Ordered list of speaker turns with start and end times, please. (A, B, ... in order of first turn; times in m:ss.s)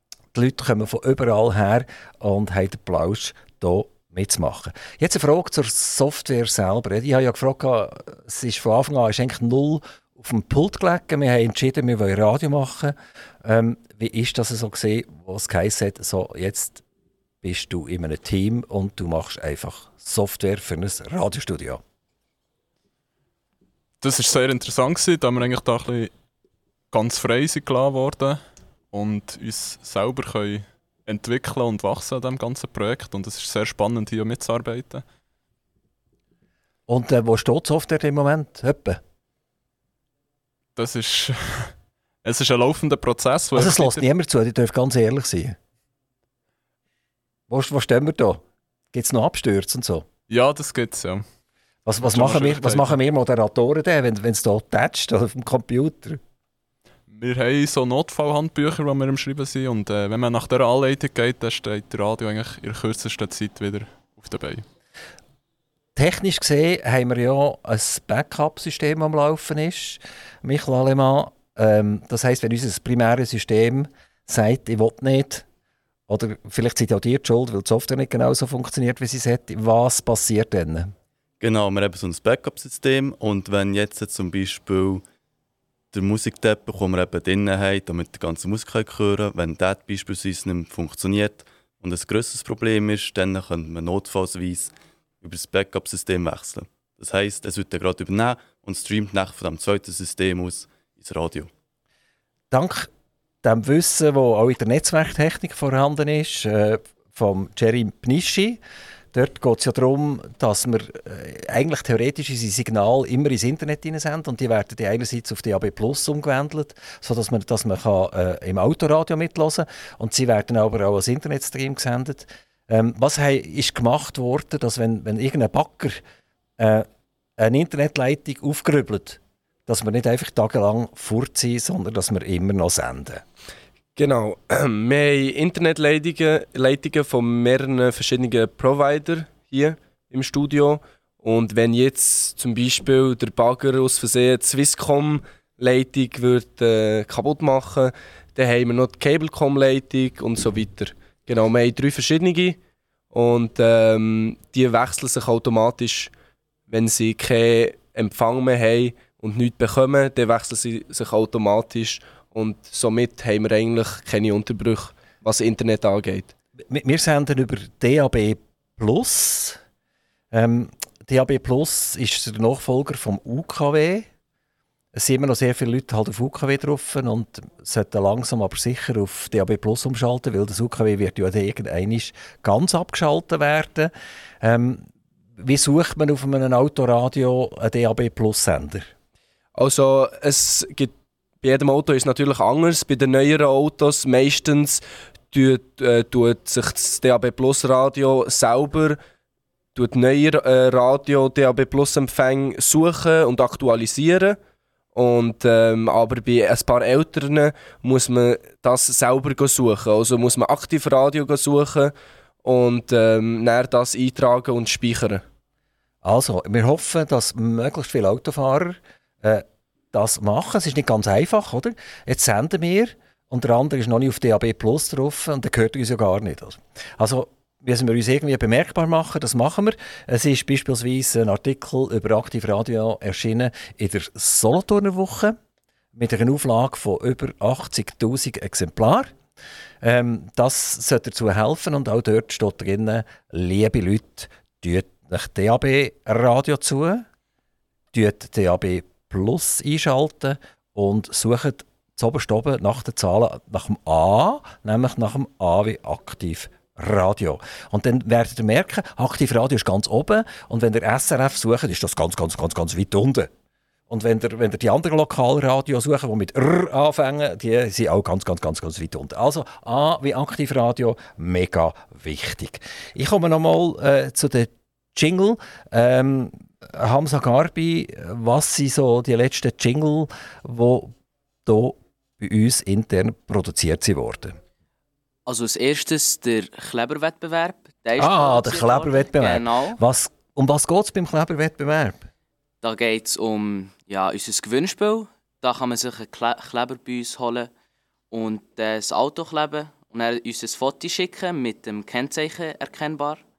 0:00.3-0:16.8 A
0:17.4-0:21.8 A
0:24.0-0:26.1 B
0:26.9-0:28.4 B
0:28.9-0:35.0 B
0:36.9-0:39.0 A
0:40.8-0:44.0 B
0:43.5-0:45.6 A
0:47.5-0:48.4 A
0:48.9-0:50.0 A
0:50.3-0:51.2 B
0:51.8-0:56.2 A
0:52.0-0:53.0 B
0:57.1-1:04.6 B
1:06.0-1:15.4 A
1:16.1-1:20.9 A
1:21.4-1:25.0 C
1:25.9-1:41.5 C
1:42.5-1:42.9 A
1:43.4-1:48.6 A
1:49.1-2:06.0 A
2:06.6-2:06.9 A
2:07.4-2:13.2 A
2:14.0-2:32.6 D
2:33.1-2:36.1 D
2:36.7-2:46.3 D
2:46.7-2:49.6 A
2:50.3-2:54.0 A
2:54.9-3:03.9 A
3:04.4-3:04.8 A
3:05.4-3:08.9 A
3:09.6-3:19.0 D
3:19.7-3:24.4 D
3:24.9-3:31.9 D
3:32.4-3:35.2 D
3:36.0-3:55.4 A
3:55.9-3:59.1 A
3:59.8-4:07.0 A
4:07.9-4:23.3 A
4:23.9-4:40.9 A
4:41.4-4:44.4 A
4:45.3-4:49.8 E
4:48.0-4:52.1 A
4:52.6-4:57.5 E
4:58.1-5:03.2 E